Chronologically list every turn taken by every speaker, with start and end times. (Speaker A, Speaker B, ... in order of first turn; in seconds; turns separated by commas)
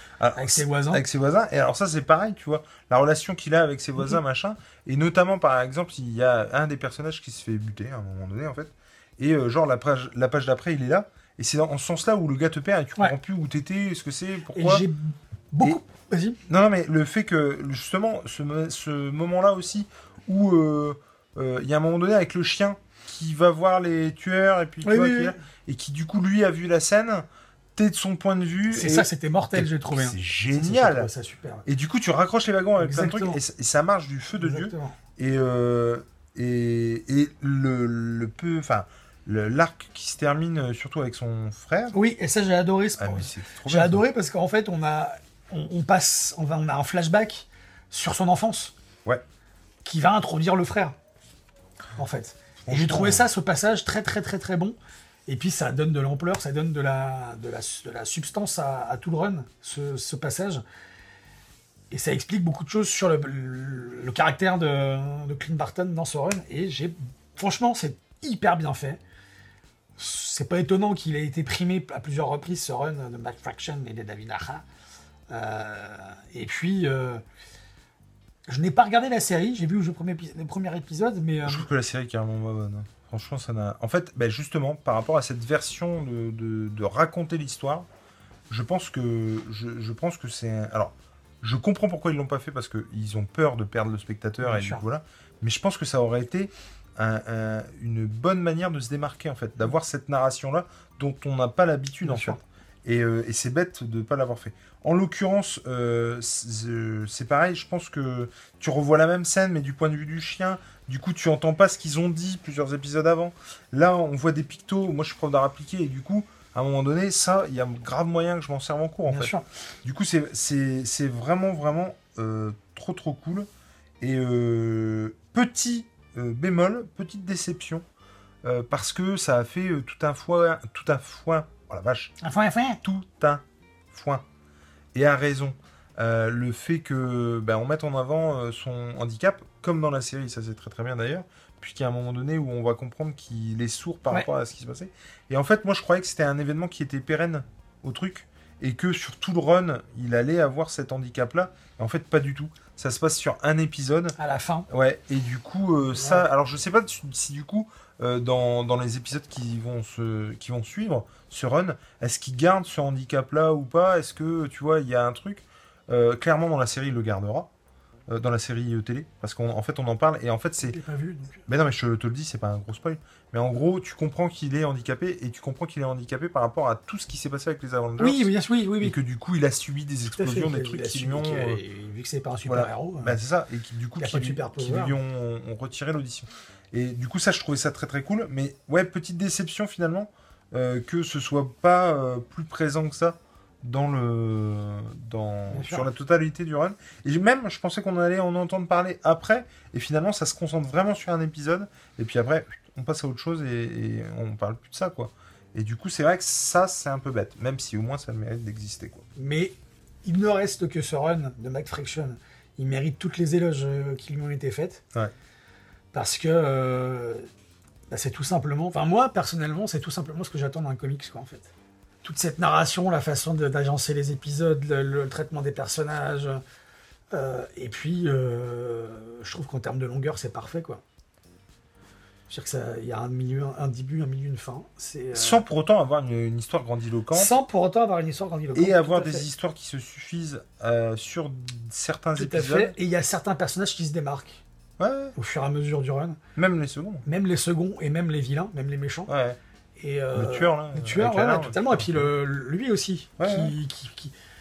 Speaker A: 0.2-14.9, Speaker B: 0.3-1.0, Speaker B: 14.5-16.4, Speaker A: 16.5-27.2, Speaker B: 24.8-25.4, Speaker A: 27.8-31.1, Speaker B: 28.7-31.6, Speaker A: 31.6-42.0, Speaker B: 32.8-33.4, Speaker B: 34.4-35.0, Speaker B: 41.9-48.7, Speaker A: 43.0-44.0, Speaker B: 49.9-51.0, Speaker B: 52.0-54.8, Speaker A: 52.6-53.2, Speaker B: 55.3-60.6, Speaker B: 61.9-69.0, Speaker B: 70.0-74.6, Speaker B: 75.3-77.2, Speaker B: 78.5-81.7, Speaker A: 81.4-87.9, Speaker A: 88.5-123.5, Speaker B: 94.4-94.8, Speaker B: 102.0-102.4, Speaker B: 119.1-119.4, Speaker A: 124.0-127.8, Speaker A: 128.4-132.1, Speaker B: 132.2-132.8, Speaker A: 132.8-134.2, Speaker A: 134.9-154.2, Speaker B: 154.2-154.7, Speaker A: 154.7-167.5, Speaker B: 155.9-156.2, Speaker A: 168.1-170.8, Speaker B: 170.6-171.4, Speaker A: 171.4-178.3, Speaker B: 178.0-179.0, Speaker A: 178.8-181.6, Speaker B: 180.1-183.2, Speaker A: 182.4-209.0, Speaker B: 184.0-184.9, Speaker B: 195.5-195.9, Speaker B: 209.2-214.8, Speaker B: 215.9-217.3, Speaker B: 217.9-221.5, Speaker B: 222.0-226.4, Speaker B: 227.1-230.8, Speaker B: 232.3-235.4, Speaker A: 235.1-237.3, Speaker B: 237.1-239.3, Speaker A: 238.6-242.7, Speaker B: 242.2-244.4, Speaker A: 244.8-245.1, Speaker B: 245.2-246.2, Speaker A: 246.4-247.1, Speaker B: 247.1-249.1, Speaker A: 249.1-249.4, Speaker B: 249.8-254.1, Speaker A: 250.1-252.1, Speaker A: 253.2-253.5